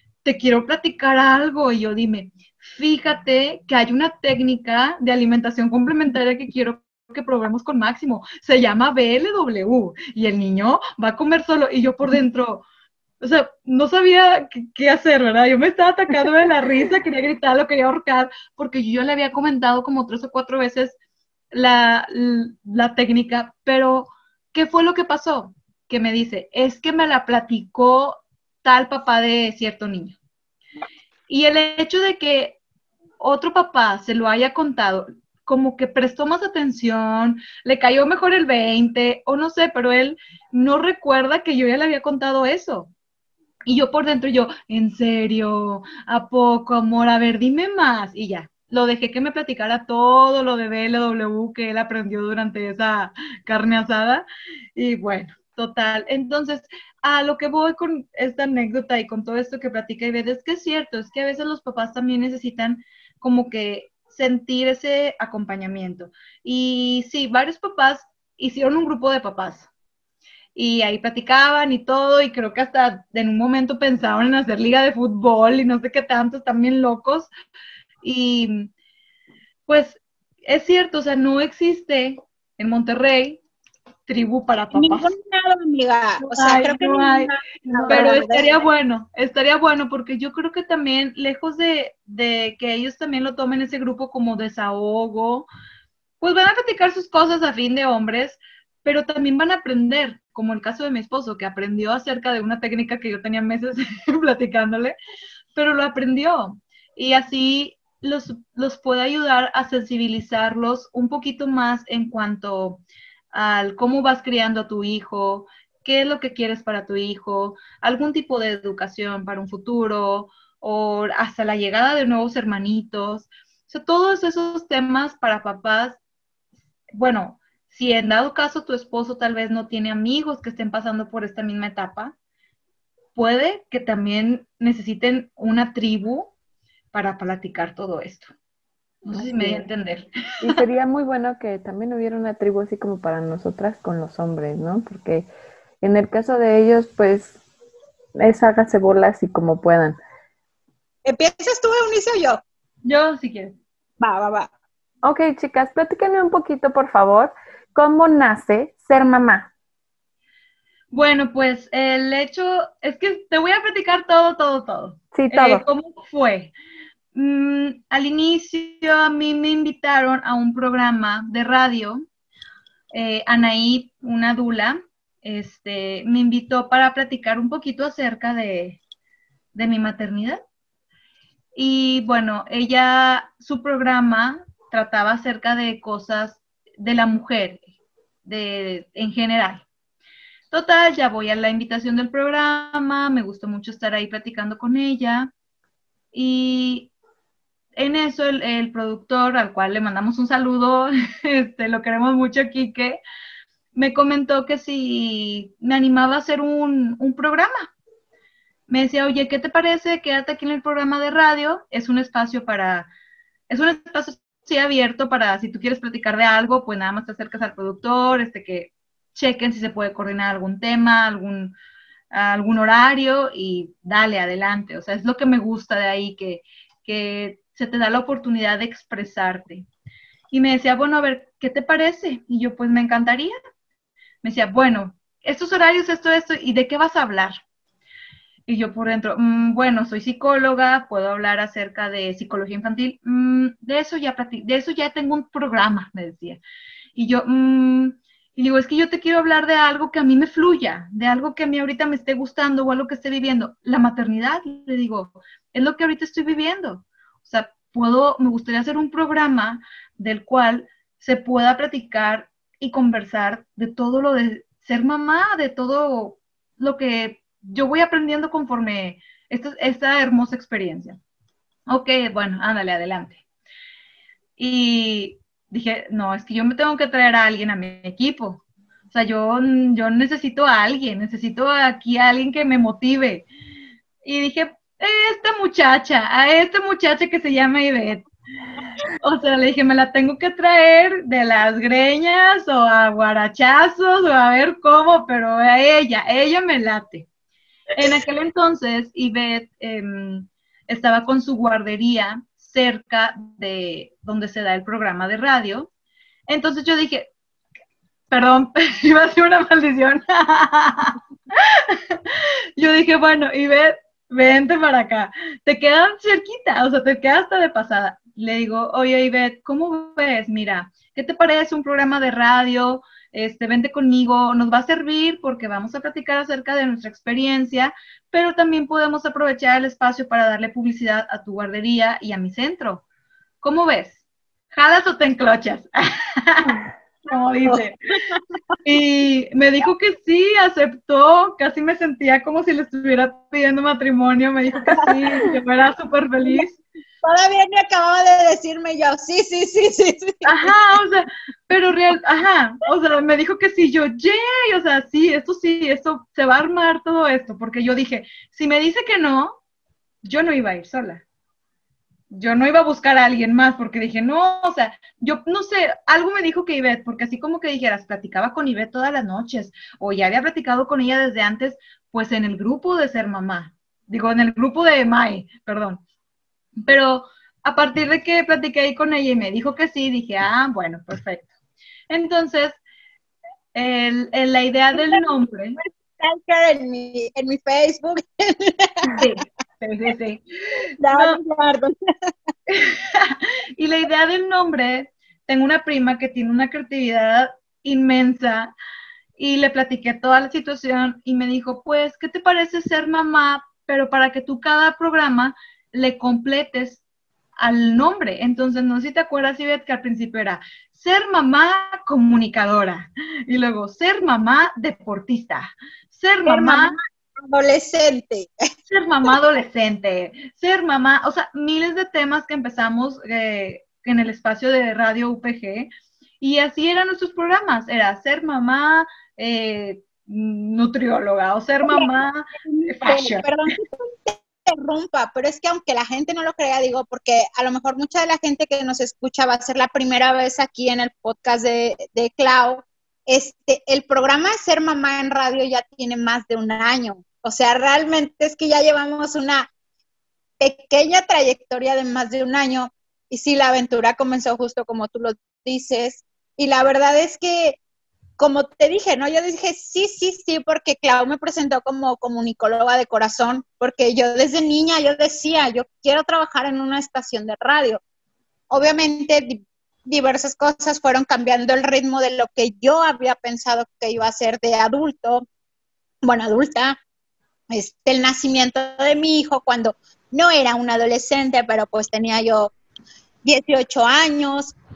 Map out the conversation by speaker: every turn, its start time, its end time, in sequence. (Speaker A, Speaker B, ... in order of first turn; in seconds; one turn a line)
Speaker A: 0.2-12.7
Speaker A: 13.2-21.0
Speaker A: 21.5-30.2
Speaker A: 31.3-32.6
Speaker A: 33.2-42.9
Speaker A: 43.7-54.2
Speaker A: 54.8-69.7
Speaker A: 70.6-77.3
Speaker A: 78.0-78.7
Speaker A: 79.7-83.4
Speaker A: 84.1-85.1
Speaker B: 84.7-88.5
Speaker A: 86.2-95.5
Speaker A: 96.2-105.0
Speaker A: 105.5-112.8
Speaker A: 113.3-126.0
Speaker A: 127.0-132.1
Speaker A: 133.2-136.3
Speaker A: 136.9-138.3
Speaker A: 139.0-140.6
Speaker C: 139.1-139.7
Speaker C: 140.4-145.3
Speaker C: 145.8-147.4
Speaker C: 148.2-150.0
Speaker B: 151.1-152.4
Speaker A: 152.8-153.6
Speaker B: 154.0-154.5
Speaker C: 155.0-159.5
Speaker A: 160.9-166.5
Speaker C: 165.1-165.7
Speaker A: 167.1-172.0
Speaker A: 172.9-178.8
Speaker A: 179.6-180.4
Speaker A: 181.6-187.6
Speaker A: 188.3-189.7
Speaker A: 190.5-195.3
Speaker A: 196.1-196.9
Speaker A: 197.8-203.0
Speaker A: 203.8-207.7
Speaker A: 208.7-212.9
Speaker A: 213.5-221.6
Speaker A: 222.1-229.7
Speaker A: 230.3-233.3
Speaker A: 234.2-237.3
Speaker A: 238.5-246.4
Speaker A: 247.0-271.0
Speaker A: 271.7-273.2
Speaker A: 274.4-283.3
Speaker A: 284.1-288.1
Speaker A: 289.0-297.1
Speaker A: 297.8-305.7
Speaker A: 306.3-307.1
Speaker A: 308.1-312.0
Speaker A: 312.6-332.8
Speaker A: 333.4-334.0
Speaker A: 334.5-337.8
Speaker A: 338.6-346.6
Speaker B: 347.0-350.5
Speaker A: 350.2-359.4
Speaker A: 360.0-361.0
Speaker A: 362.1-375.8
Speaker A: 376.6-381.3
Speaker A: 381.9-382.6
Speaker A: 383.6-385.6
Speaker B: 385.6-389.0
Speaker A: 388.9-390.2
Speaker B: 390.8-391.7
Speaker A: 390.9-391.2
Speaker A: 392.5-398.5
Speaker A: 399.2-406.8
Speaker A: 407.4-416.8
Speaker B: 416.2-418.3
Speaker A: 418.7-425.7
Speaker A: 426.2-433.3
Speaker B: 431.6-431.9
Speaker B: 432.4-449.5
Speaker B: 450.4-457.6
Speaker B: 458.2-467.8
Speaker B: 468.5-475.3
Speaker B: 476.0-476.8
Speaker B: 477.5-482.5
Speaker B: 483.2-484.6